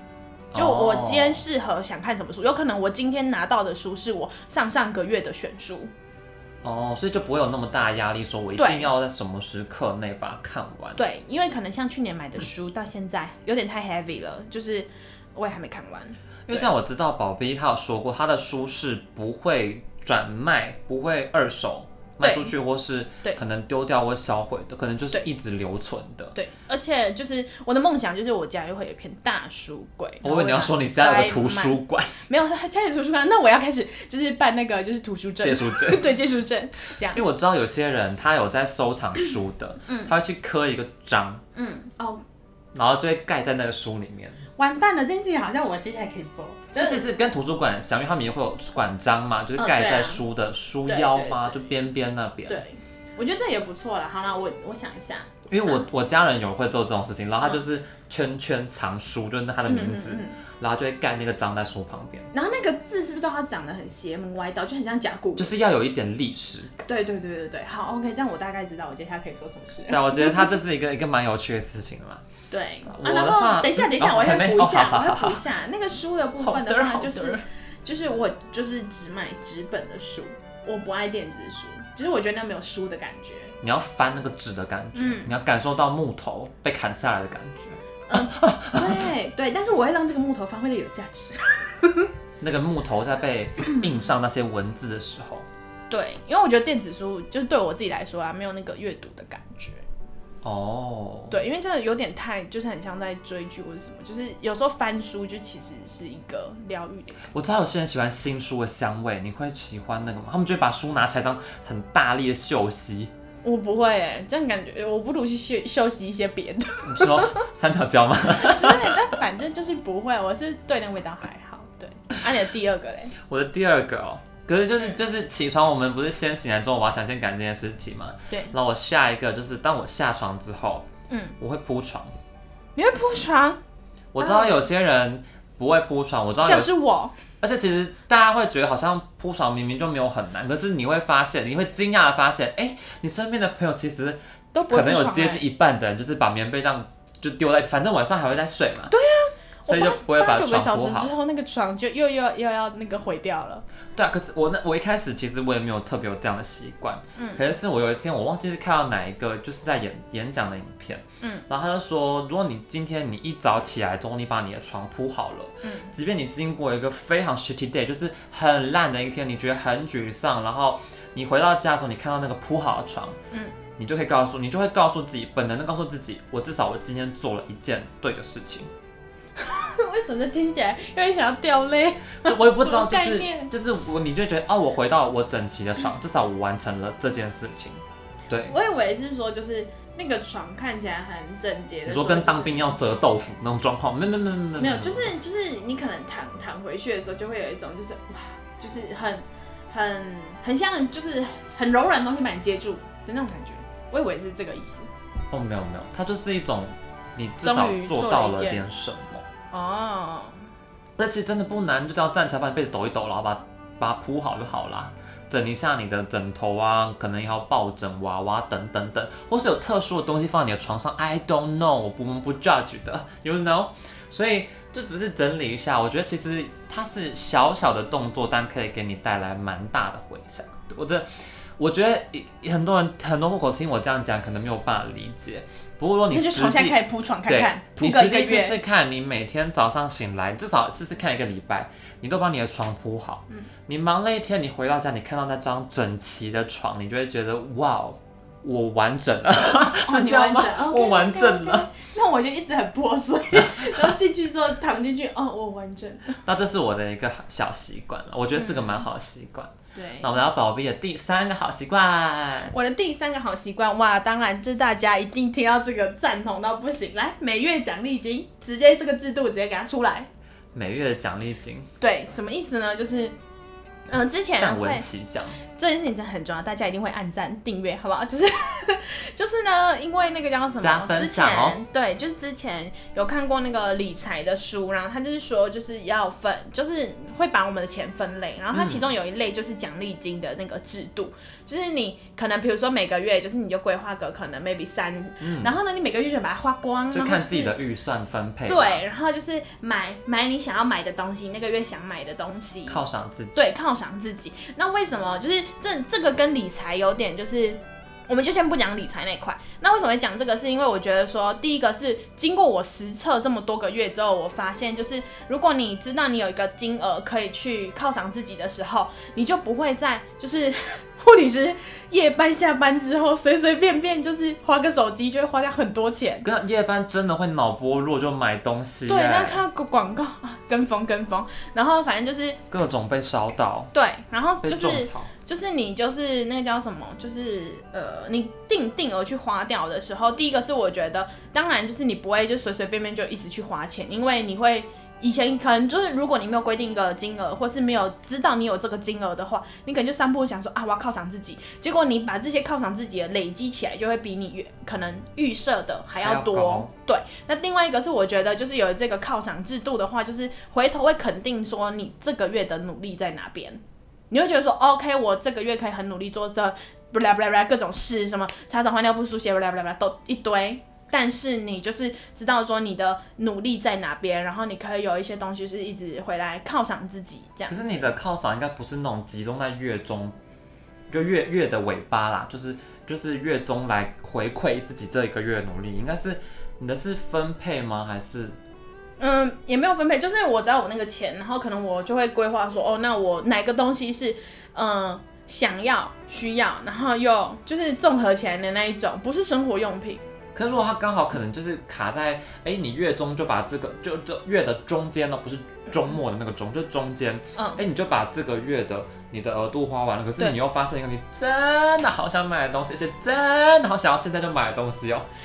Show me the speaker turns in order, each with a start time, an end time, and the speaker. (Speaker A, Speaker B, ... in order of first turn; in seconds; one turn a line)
Speaker A: 0.5-1.4
Speaker B: 0.6-5.9
Speaker A: 6.6-11.0
Speaker B: 8.6-8.9
Speaker B: 11.0-16.7
Speaker A: 16.5-26.4
Speaker B: 22.2-22.6
Speaker B: 26.4-37.2
Speaker A: 30.2-32.2
Speaker A: 35.4-36.1
Speaker A: 37.1-41.4
Speaker B: 39.9-40.1
Speaker B: 41.5-42.2
Speaker A: 42.7-44.4
Speaker B: 44.6-47.0
Speaker A: 46.8-52.6
Speaker B: 49.6-50.2
Speaker B: 50.9-51.7
Speaker B: 52.5-55.8
Speaker A: 55.5-62.3
Speaker B: 59.7-60.4
Speaker B: 62.3-65.5
Speaker A: 65.4-66.8
Speaker B: 66.8-70.6
Speaker A: 69.9-72.2
Speaker B: 72.5-83.5
Speaker A: 72.9-75.4
Speaker A: 76.4-77.4
Speaker A: 83.6-89.1
Speaker B: 84.9-85.3
Speaker B: 88.1-92.1
Speaker A: 92.4-95.5
Speaker B: 95.9-99.8
Speaker A: 100.4-101.4
Speaker B: 101.3-107.3
Speaker A: 107.3-113.1
Speaker B: 113.4-117.5
Speaker A: 116.8-119.0
Speaker B: 118.3-123.1
Speaker A: 123.3-130.9
Speaker B: 131.1-131.4
Speaker A: 131.4-132.1
Speaker B: 132.8-133.6
Speaker A: 134.1-136.8
Speaker B: 134.2-134.6
Speaker B: 136.4-137.1
Speaker A: 137.4-148.9
Speaker B: 144.5-145.4
Speaker B: 148.9-153.6
Speaker A: 149.7-151.1
Speaker A: 153.9-173.2
Speaker B: 157.2-157.4
Speaker B: 165.6-165.9
Speaker A: 173.8-178.7
Speaker B: 179.4-183.5
Speaker A: 182.2-188.6
Speaker B: 188.5-192.7
Speaker A: 191.9-195.1
Speaker B: 194.6-204.9
Speaker A: 205.3-209.2
Speaker B: 207.4-208.6
Speaker B: 209.5-210.4
Speaker A: 211.0-231.1
Speaker A: 231.6-251.7
Speaker B: 236.1-238.6
Speaker B: 249.7-256.2
Speaker A: 253.3-253.9
Speaker A: 256.2-262.5
Speaker B: 258.4-258.8
Speaker B: 259.8-260.1
Speaker B: 262.5-270.1
Speaker A: 270.5-271.7
Speaker B: 271.8-273.1
Speaker B: 273.9-274.9
Speaker A: 274.4-275.4
Speaker B: 275.5-297.6
Speaker A: 280.6-281.6
Speaker A: 288.5-288.9
Speaker A: 295.2-295.5
Speaker A: 296.9-298.8
Speaker B: 298.5-302.8
Speaker A: 302.7-303.5
Speaker B: 303.4-326.3
Speaker A: 326.2-329.4
Speaker B: 328.9-332.4
Speaker A: 332.5-333.7
Speaker B: 333.7-377.9
Speaker A: 334.4-335.1
Speaker A: 356.0-356.7
Speaker A: 377.5-380.2
Speaker A: 380.9-388.4
Speaker B: 389.0-400.0
Speaker A: 400.4-415.1
Speaker B: 407.4-407.6